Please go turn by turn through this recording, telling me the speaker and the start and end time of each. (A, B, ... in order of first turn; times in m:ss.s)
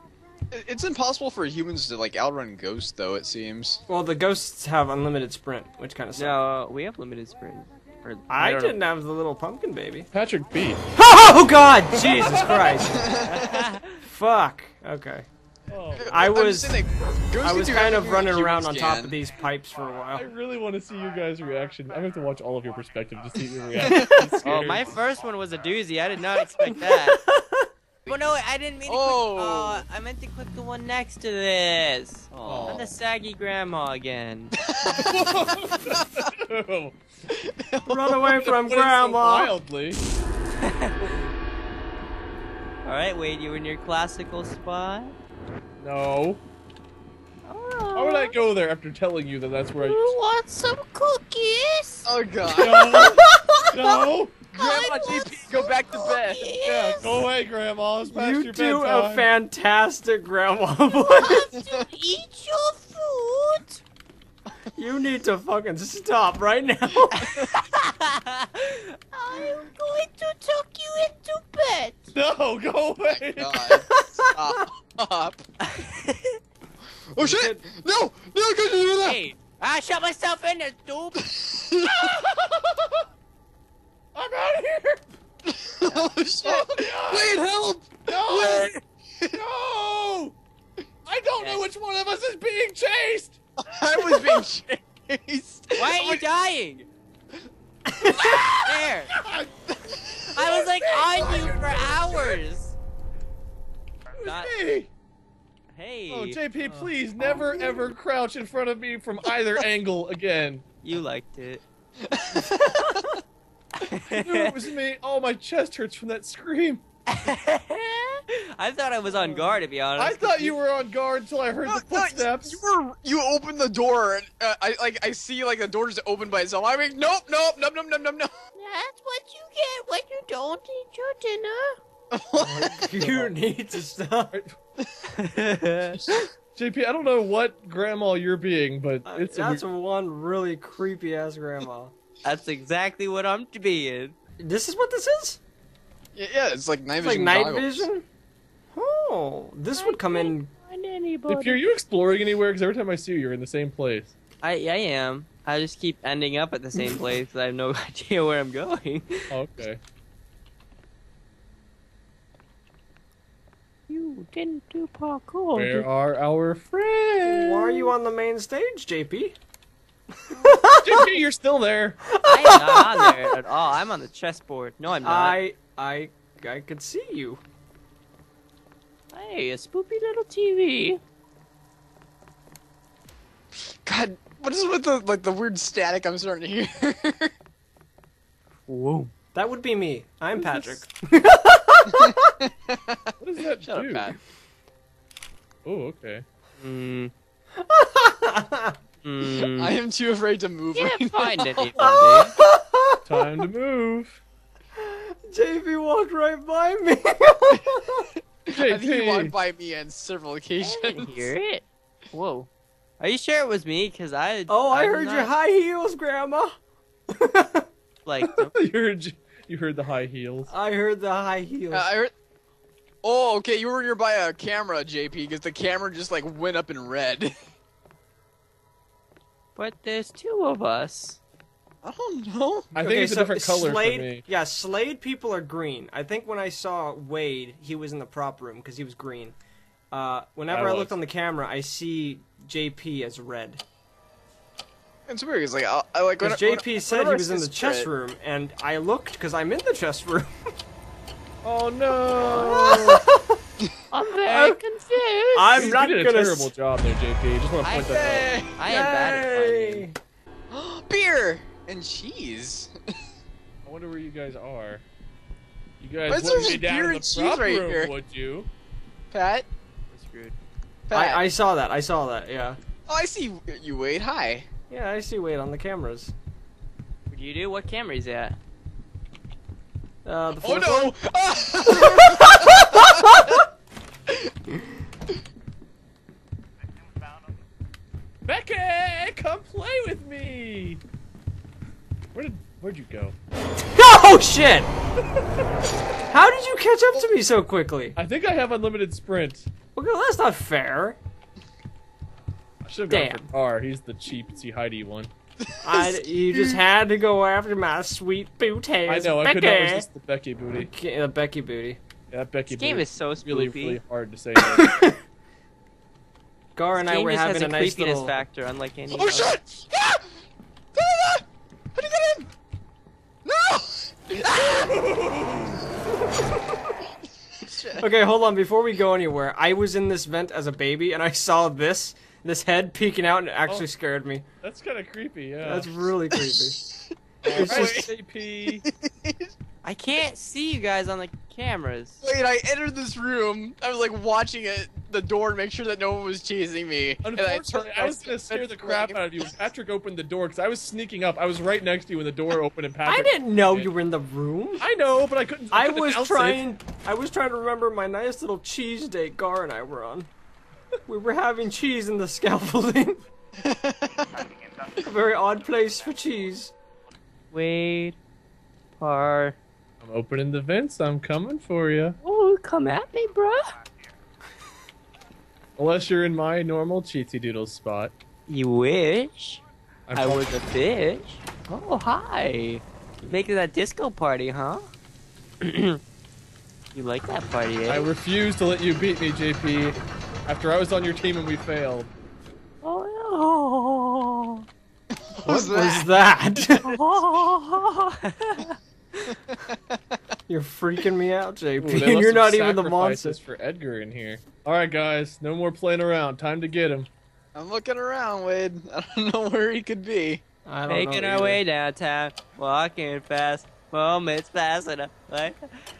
0:00.5-0:03.8 A
0:03.9-0:06.4 B
0:06.1-0:08.8 C
0:08.3-0:10.1 B
0:10.1-0:10.8 D
0:11.0-0:13.1 B
0:13.0-0:13.4 A
0:13.2-0:13.9 C
0:14.0-0:15.2 B
0:15.7-0:16.2 D
0:15.9-0:19.2 A
0:16.0-0:16.8 B
0:17.4-0:20.2 B
0:20.1-0:24.9 D
0:23.7-0:24.4 B
0:23.8-0:24.3 A
0:24.4-0:27.2 C
0:26.6-0:27.7 B
0:28.1-0:34.5 C
0:28.9-0:29.8 A
0:32.3-0:32.9 A
0:32.4-0:32.9 D
0:34.7-0:35.3 A
0:34.9-0:37.0 D
0:35.8-0:36.3 A
0:37.3-0:38.4 A
0:37.8-0:39.5 B
0:38.4-0:40.0 D
0:40.6-0:40.9 C
0:41.0-0:41.3 D
0:42.8-0:45.1 C
0:45.8-0:46.4 D
0:47.4-0:48.3 C
0:48.0-0:50.1 D
0:49.8-0:52.1 C
0:52.0-0:53.2 A
0:52.6-0:54.4 D
0:52.6-0:53.8 B
0:54.5-0:56.6 A
0:54.5-0:57.2 C
0:56.6-0:59.3 D
0:58.1-1:01.5 B
1:00.9-1:03.8 C
1:04.7-1:07.3 B
1:07.3-1:12.0 C
1:12.1-1:13.6 D
1:13.1-1:15.4 A
1:13.7-1:14.6 B
1:15.6-1:16.4 C
1:17.1-1:19.2 A
1:17.2-1:17.6 B
1:19.0-1:21.2 C
1:21.2-1:22.1 A
1:21.8-1:23.0 D
1:24.1-1:25.1 D
1:25.4-1:29.4 A
1:25.8-1:26.1 C
1:26.4-1:28.7 D
1:28.3-1:28.8 C
1:29.3-1:30.3 D
1:31.0-1:33.4 D
1:31.4-1:31.6 C
1:33.6-1:36.2 A
1:35.8-1:36.9 C
1:37.9-1:38.3 B
1:38.5-1:39.1 C
1:39.1-1:39.5 D
1:39.8-1:40.5 A
1:40.3-1:42.7 C
1:40.5-1:42.4 D
1:44.2-1:44.9 D
1:44.2-1:44.5 C
1:45.7-1:46.4 C
1:46.1-1:50.6 D
1:46.6-1:47.9 B
1:50.8-1:51.6 C
1:52.0-1:53.1 A
1:53.8-1:54.5 C
1:54.1-1:56.8 D
1:57.1-2:00.6 C
1:59.1-2:02.6 D
2:01.6-2:08.3 A
2:08.6-2:11.8 C
2:12.1-2:12.9 A
2:12.4-2:14.3 B
2:13.0-2:13.3 D
2:15.2-2:16.0 C
2:16.5-2:19.6 D
2:19.0-2:21.9 B
2:22.2-2:24.2 C
2:24.4-2:25.4 B
2:26.1-2:27.9 A
2:27.0-2:28.0 B
2:28.7-2:30.5 B
2:29.7-2:31.6 C
2:31.3-2:34.1 D
2:34.4-2:39.3 C
2:39.3-2:39.8 D
2:43.9-2:45.9 C
2:45.5-2:47.9 D
2:47.2-2:49.4 B
2:50.3-2:51.1 B
2:50.8-2:52.0 D
2:52.1-2:53.1 B
2:52.2-2:55.4 C
2:55.0-2:57.4 B
2:59.1-3:01.0 C
3:03.6-3:07.3 A
3:08.7-3:09.1 C
3:09.3-3:12.2 B
3:10.4-3:10.8 C
3:11.9-3:13.0 A
3:13.2-3:14.1 D
3:13.6-3:14.2 A
3:15.6-3:16.2 D
3:16.6-3:17.1 C
3:17.6-3:18.8 B
3:19.0-3:19.8 C
3:19.3-3:21.9 A
3:20.7-3:22.3 C
3:21.8-3:23.0 B
3:23.0-3:24.2 D
3:24.8-3:28.1 B
3:28.4-3:31.3 A
3:28.5-3:29.3 D
3:30.6-3:32.5 C
3:33.0-3:35.3 C
3:34.5-3:36.5 B
3:37.1-3:37.6 B
3:38.0-3:38.6 C
3:38.2-3:40.5 D
3:40.5-3:41.9 B
3:41.7-3:42.1 A
3:43.0-3:47.3 A
3:49.6-3:51.2 C
3:51.8-3:52.7 A
3:52.7-3:54.2 D
3:52.8-3:59.4 B
3:59.9-4:03.6 B
4:00.5-4:00.9 D
4:05.1-4:07.9 A
4:06.2-4:10.3 B
4:11.4-4:13.0 D
4:12.3-4:13.4 B
4:13.9-4:15.8 C
4:14.3-4:14.6 D
4:15.3-4:16.5 B
4:15.5-4:18.3 D
4:17.6-4:19.9 C
4:17.9-4:19.2 A
4:18.7-4:20.0 B
4:20.5-4:22.7 A
4:23.6-4:24.8 D
4:25.8-4:28.5 D
4:26.1-4:27.9 A
4:29.1-4:29.5 A
4:29.9-4:30.3 C
4:30.9-4:31.2 A
4:30.9-4:32.6 B
4:32.9-4:34.5 A
4:34.7-4:36.1 B
4:37.1-4:38.4 C
4:40.0-4:40.9 B
4:40.4-4:43.4 A
4:41.7-4:43.2 B
4:48.2-4:50.8 D
4:52.1-4:53.1 D
4:53.7-4:54.7 B
4:56.1-4:58.0 B
4:58.0-4:59.5 D
4:59.7-5:01.0 B
5:02.6-5:05.1 D
5:02.9-5:03.2 C
5:05.5-5:06.6 A
5:05.6-5:09.8 B
5:08.8-5:10.7 D
5:10.6-5:11.8 B
5:12.1-5:14.7 D
5:12.5-5:13.8 C
5:14.4-5:15.0 B
5:16.5-5:18.2 B
5:16.7-5:19.3 C
5:18.9-5:20.0 A
5:20.8-5:21.2 A
5:21.7-5:22.3 A
5:23.2-5:24.9 A
5:27.4-5:27.8 A
5:27.8-5:34.2 B
5:34.4-5:35.7 D
5:35.4-5:36.6 B
5:36.2-5:37.9 A
5:37.2-5:38.6 D
5:37.3-5:37.9 B
5:38.6-5:39.3 A
5:39.6-5:42.0 C
5:42.0-5:49.2 A
5:47.0-5:53.7 D
5:52.8-5:54.6 B
5:54.6-5:56.5 D
5:55.5-6:00.1 B
6:00.9-6:03.0 B
6:03.4-6:04.2 A
6:04.8-6:06.5 B
6:07.3-6:08.0 C
6:08.8-6:09.4 C
6:09.8-6:12.0 D
6:12.0-6:13.5 C
6:15.6-6:17.9 D
6:18.3-6:19.4 C
6:19.9-6:20.3 D
6:19.9-6:24.6 C
6:25.4-6:25.8 C
6:26.7-6:27.9 C
6:27.7-6:31.9 D
6:32.6-6:34.4 C
6:35.0-6:35.9 A
6:35.2-6:36.8 B
6:36.5-6:38.6 C
6:39.1-6:39.5 A
6:40.3-6:43.2 B
6:41.6-6:46.9 D
6:47.3-6:50.2 A
6:50.4-6:51.4 B
6:50.6-6:55.4 C